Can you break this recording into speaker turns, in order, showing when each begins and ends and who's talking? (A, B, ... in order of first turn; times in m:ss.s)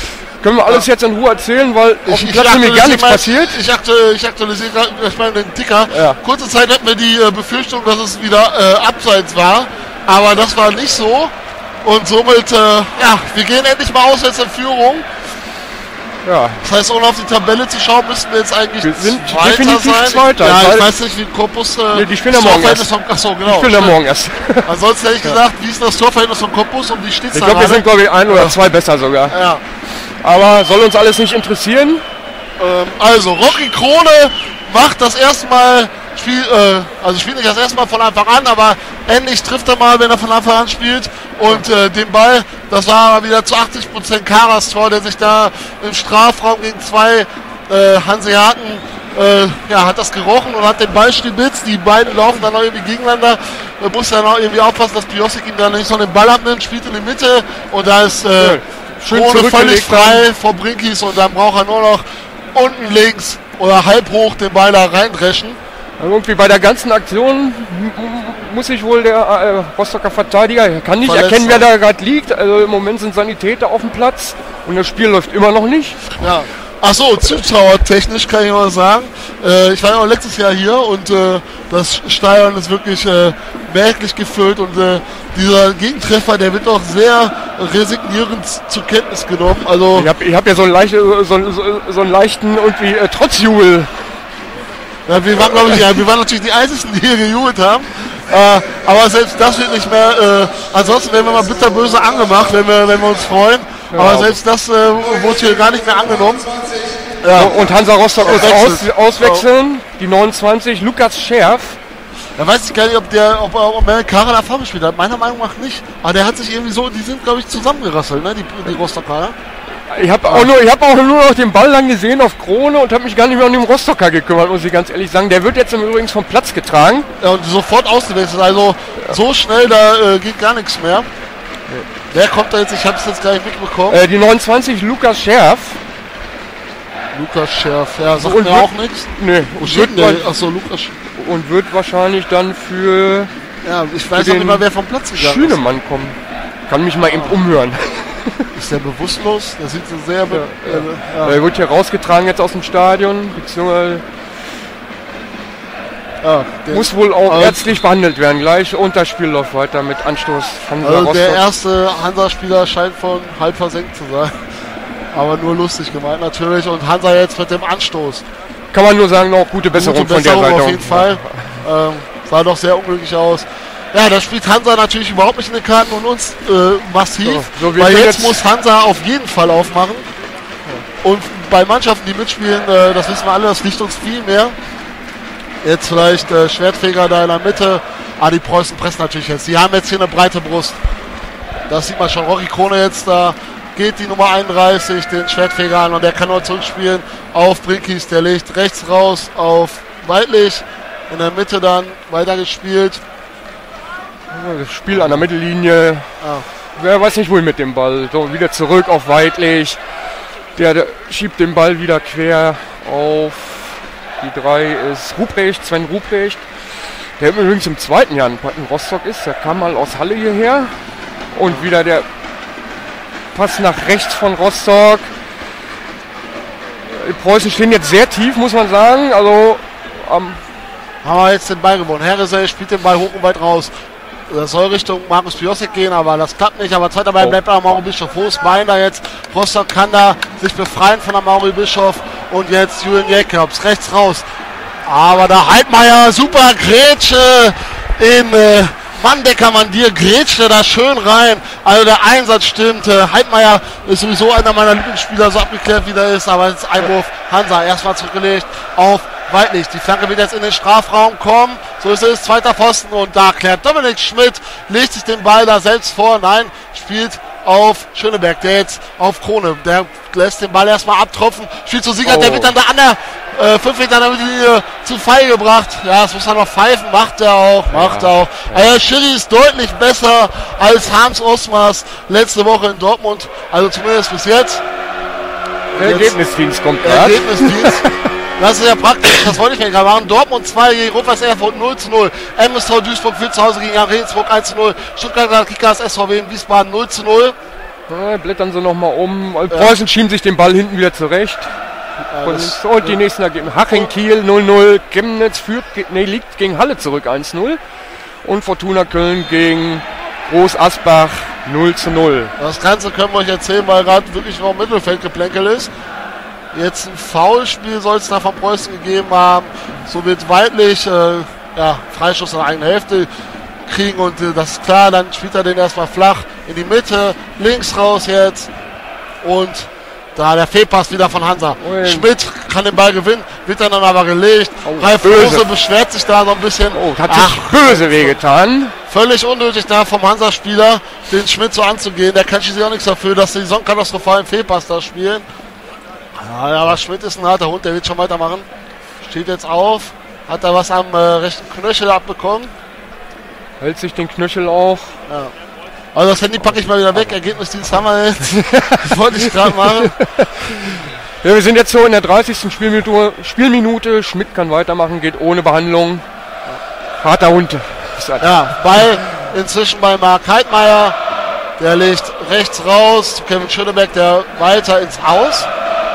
0:00.4-0:03.6 A
0:02.0-0:15.1 B
0:05.9-0:06.2 A
0:16.2-0:16.6 A
0:16.6-0:24.0 B
0:18.8-0:20.9 A
0:21.9-0:22.9 A
0:23.4-0:24.7 A
0:24.6-0:28.6 B
0:27.3-0:29.4 A
0:29.3-0:29.6 B
0:30.2-0:32.0 A
0:32.6-1:05.6 B
0:58.4-1:00.3 A
1:06.0-1:16.1 A
1:11.0-1:11.6 B
1:16.2-1:30.1 B
1:29.9-1:34.0 A
1:35.1-1:46.5 B
1:43.9-1:44.4 A
1:47.2-1:47.5 B
1:47.3-1:51.8 A
1:48.2-1:49.4 B
1:52.4-1:59.3 B
1:59.9-2:07.1 A
2:07.2-2:11.1 B
2:12.1-2:14.0 B
2:13.9-2:15.8 A
2:17.1-2:21.0 B
2:18.2-2:20.3 A
2:21.2-2:23.3 A
2:23.6-2:25.6 B
2:24.2-2:26.2 A
2:26.7-2:28.5 A
2:27.1-2:27.4 B
2:28.5-2:31.4 B
2:30.3-2:34.0 A
2:36.2-2:37.8 B
2:36.7-2:41.4 A
2:40.8-2:44.4 B
2:45.1-2:48.2 B
2:48.7-2:51.6 A
2:49.7-3:00.1 B
2:57.2-2:58.4 A
3:01.0-3:04.6 B
3:05.6-3:10.8 B
3:11.7-3:23.0 B
3:24.3-3:26.1 A
3:26.2-3:26.4 B
3:26.8-3:29.8 A
3:30.6-3:36.4 A
3:37.2-3:40.7 A
3:41.3-3:42.0 A
3:43.3-3:45.1 A
3:46.9-3:50.4 A
3:51.0-3:53.7 B
3:54.3-4:04.2 B
4:04.8-4:44.6 B
4:32.0-4:32.5 A
4:37.7-4:38.6 A
4:45.8-4:46.2 B
4:45.8-4:48.0 A
4:46.8-4:57.4 B
4:57.9-5:01.5 A
4:59.5-4:59.8 B
5:02.1-5:03.0 B
5:02.2-5:07.6 A
5:08.2-5:12.3 A
5:12.4-5:15.7 B
5:16.5-5:23.1 B
5:23.6-5:28.5 B
5:29.2-5:38.2 B
5:31.6-5:32.1 A
5:34.6-5:35.5 A
5:36.7-5:38.7 A
5:38.9-5:45.2 B
5:46.2-5:48.4 B
5:49.0-5:52.5 B
5:53.6-5:55.0 A
5:55.9-6:00.0 B
5:58.2-6:06.0 A
6:07.0-6:08.3 A
6:08.2-6:11.0 B
6:11.6-6:15.5 B